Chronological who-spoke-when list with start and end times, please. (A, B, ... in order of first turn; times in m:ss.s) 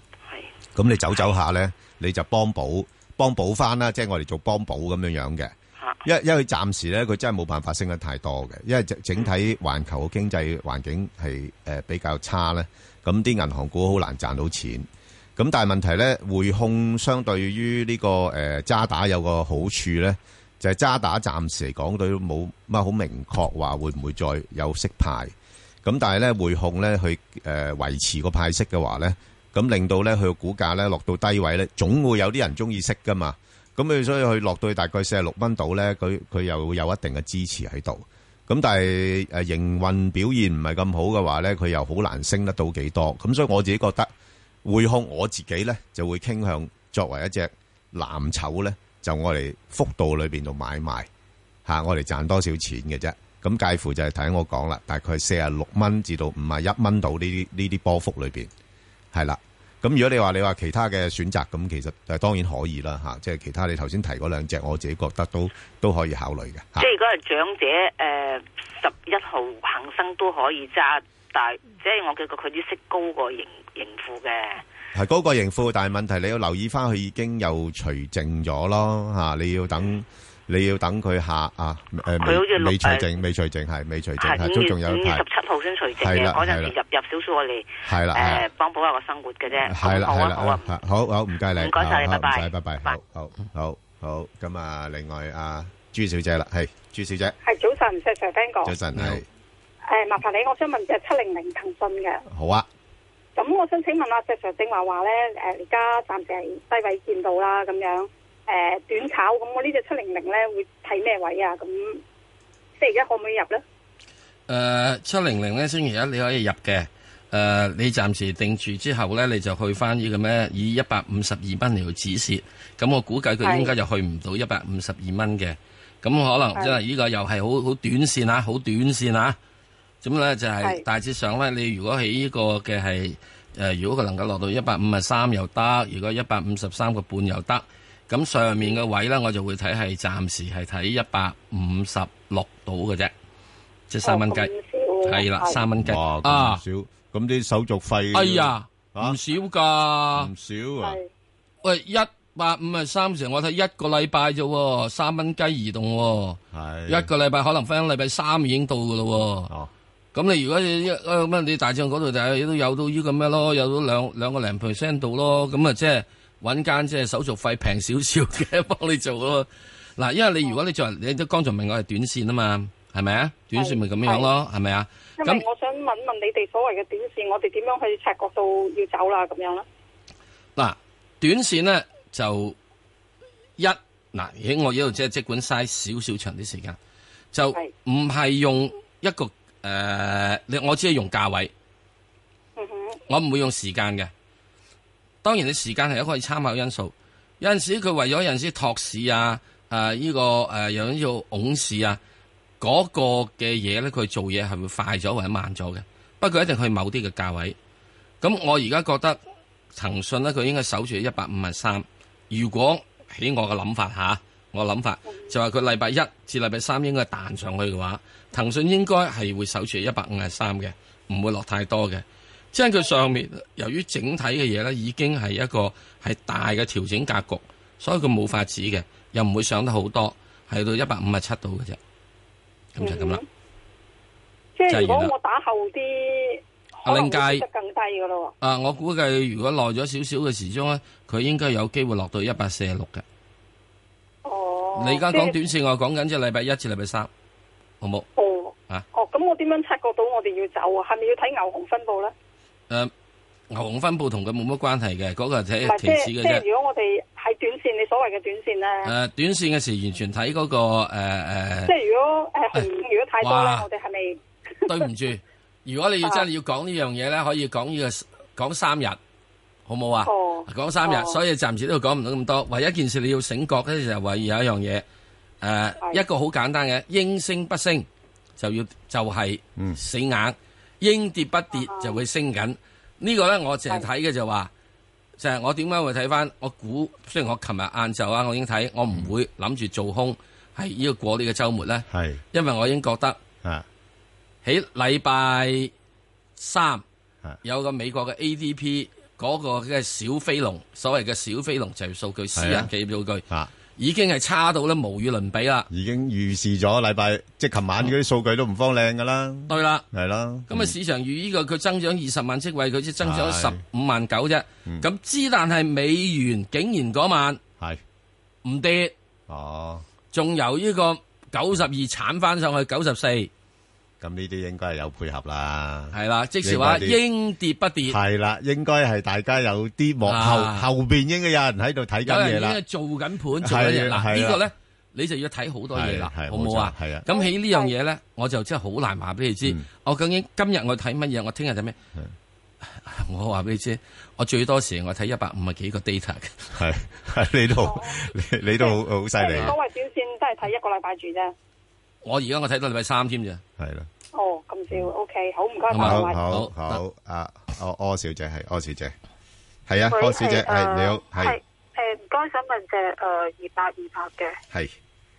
0:00.7-0:05.5 A
0:06.0-0:44.1 A
0:44.6-0:51.1 A
0:51.6-0:58.5 A
0:59.1-1:06.9 A
1:06.8-1:14.6 B
1:14.9-1:25.2 A
1:22.2-1:23.1 B
1:24.2-1:30.7 B
1:26.0-1:26.7 A
1:27.8-1:28.4 A
1:29.6-1:37.4 A
1:31.6-1:33.0 B
1:37.4-1:38.7 C
1:38.6-1:39.2 A
1:38.9-1:39.2 D
1:39.9-1:42.2 C
1:42.3-1:42.7 A
1:43.4-1:52.0 C
1:52.8-1:53.6 C
1:54.5-2:09.4 D
2:03.4-2:03.7 C
2:10.0-2:23.1 D
2:23.9-2:24.5 D
2:24.0-2:25.6 C
2:25.0-2:26.6 D
2:25.8-2:29.2 A
2:28.1-2:30.3 D
2:30.1-2:31.0 A
2:30.8-2:31.1 C
2:31.6-2:39.5 D
2:36.5-2:37.1 A
2:40.1-2:55.4 D
2:53.5-2:54.3 C
2:55.2-2:59.6 C
3:00.6-3:02.6 D
3:03.6-3:06.8 D
3:07.3-3:11.5 D
3:12.6-3:13.0 C
3:13.1-3:14.1 D
3:15.2-3:22.0 D
3:22.6-3:27.6 D
3:28.2-3:29.2 D
3:29.7-3:51.8 D
3:52.7-3:53.2 D
3:52.8-3:53.2 C
3:54.6-3:58.3 C
3:54.7-3:55.1 D
3:56.8-3:57.4 D
3:58.4-4:03.0 D
4:04.2-4:05.3 C
4:04.7-4:07.1 D
4:07.8-4:08.1 D
4:08.2-4:12.1 C
4:13.5-4:16.4 D
4:15.6-4:18.9 C
4:18.8-4:21.7 D
4:21.6-4:24.8 C
4:23.2-4:23.7 D
4:24.7-4:29.0 D
4:29.7-4:34.8 D
4:30.0-4:31.2 C
4:35.4-4:37.8 D
4:38.4-4:44.5 D
4:45.2-4:53.2 D
4:51.9-4:52.2 A
4:54.4-4:55.7 D
4:56.4-4:56.8 D
4:57.4-5:03.2 D
5:02.4-5:02.7 A
5:03.8-5:05.7 D
5:05.7-5:10.7 A
5:09.5-5:09.8 D
5:10.5-5:17.4 D
5:13.0-5:13.6 A
5:18.4-5:18.9 D
5:19.3-5:19.8 A
5:20.1-5:23.3 D
5:24.0-5:27.0 A
5:25.9-5:28.0 D
5:27.9-5:32.6 A
5:30.0-5:30.7 D
5:32.0-5:41.8 D
5:33.4-5:34.5 A
5:35.7-5:37.1 A
5:37.1-5:37.7 C
5:42.7-5:46.5 D
5:46.5-5:49.5 A
5:47.6-5:48.0 C
5:48.6-5:51.3 C
5:52.0-5:53.4 D
5:53.6-5:53.9 A
5:54.1-5:56.2 C
5:55.7-5:56.8 D
5:55.8-5:58.9 A
5:59.7-6:01.4 A
5:59.9-6:04.4 E